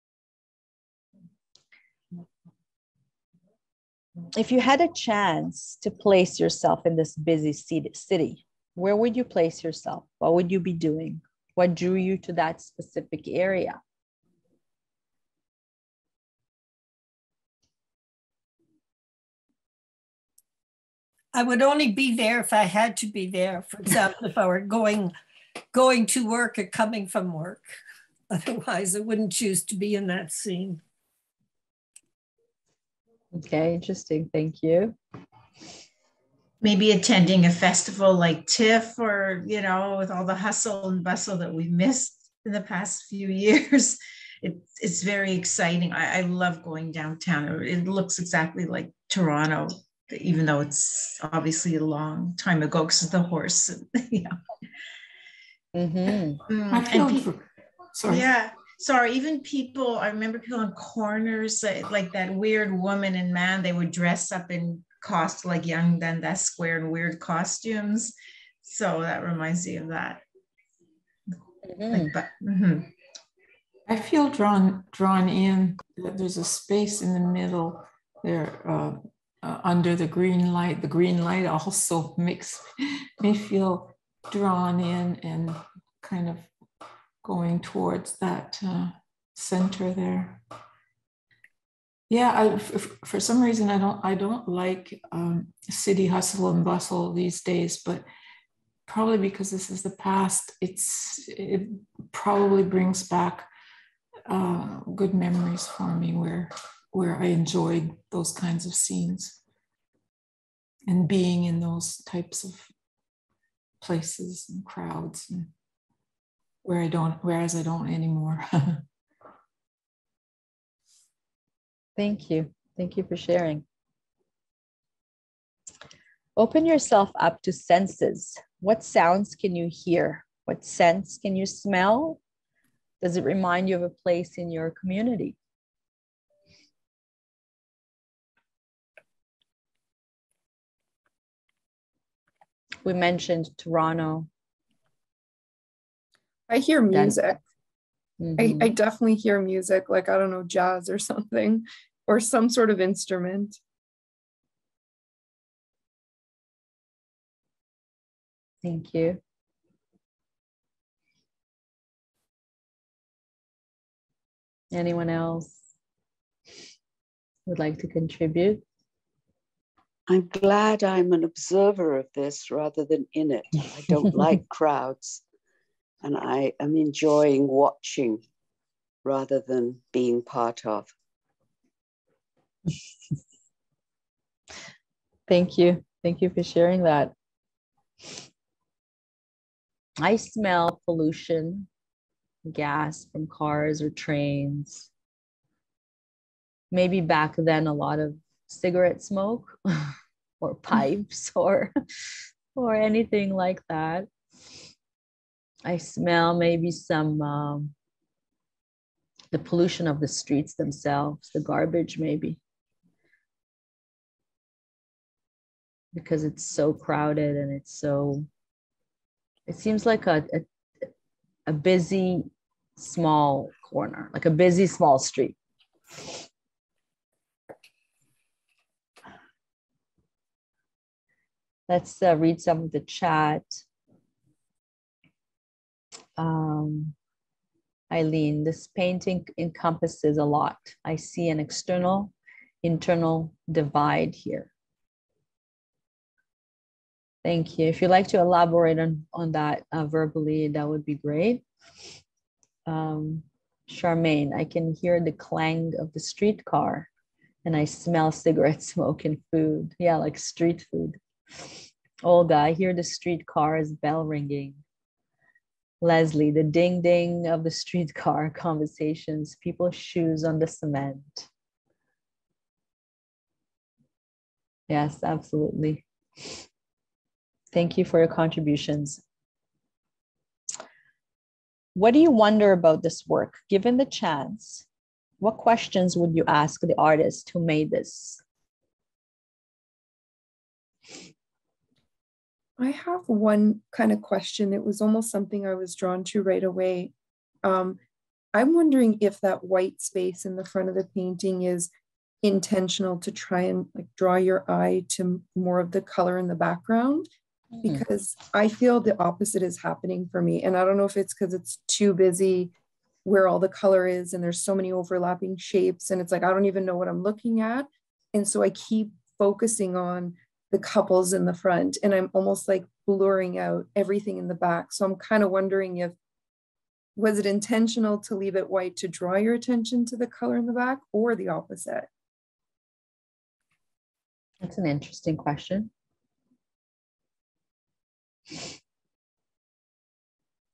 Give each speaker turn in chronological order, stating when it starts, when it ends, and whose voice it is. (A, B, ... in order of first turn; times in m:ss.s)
0:04.3-0:13.8 A
0:21.3-0:25.1 B
0:25.7-0:27.7 B
0:28.3-0:30.8 B
0:33.3-0:35.0 A
0:36.6-0:54.4 C
0:55.7-0:56.4 A
0:56.5-0:57.3 C
0:56.7-0:57.4 D
0:57.9-0:58.3 D
0:58.1-1:10.2 C
1:11.6-1:12.1 A
1:11.9-1:12.9 C
1:13.9-1:26.5 D
1:27.2-1:30.4 D
1:32.1-1:38.1 D
1:38.9-1:43.5 D
1:44.3-1:49.4 D
1:50.9-1:52.7 D
1:53.8-1:55.5 D
1:56.6-1:58.8 D
2:02.0-2:03.6 A
2:06.4-2:12.2 A
2:13.0-2:15.4 A
2:22.8-2:24.3 A
2:26.5-2:27.4 E
2:26.9-2:27.3 A
2:28.2-2:28.7 A
2:28.4-2:33.6 E
2:38.6-2:39.2 A
2:44.7-2:45.6 A
2:47.5-2:48.6 A
2:50.8-2:51.1 F
2:53.0-2:54.5 F
2:59.0-3:00.4 F
3:05.3-3:07.1 A
3:10.0-3:11.7 A
3:12.4-3:14.9 A
3:16.7-3:21.7 A
3:22.5-3:24.1 A
3:25.6-3:27.7 A
3:29.3-3:32.4 A
3:35.9-3:38.3 A
3:39.5-3:40.9 A
3:41.4-3:45.4 A
3:51.7-3:53.6 A
3:56.2-3:56.9 A
3:57.9-4:02.1 A
4:02.6-4:04.5 A
4:07.2-4:11.4 A
4:12.6-4:16.9 A
4:17.4-4:24.6 A
4:25.8-4:31.3 A
4:34.7-4:35.8 A
4:37.5-4:39.0 A
4:41.7-4:44.6 A
4:45.2-4:48.2 A
4:52.6-4:56.9 E
4:57.4-4:57.8 E
4:58.3-5:01.7 E
5:02.2-5:07.1 E
5:07.6-5:07.8 A
5:07.6-5:12.5 E
5:13.0-5:26.0 E
5:27.0-5:31.9 E
5:34.4-5:35.7 A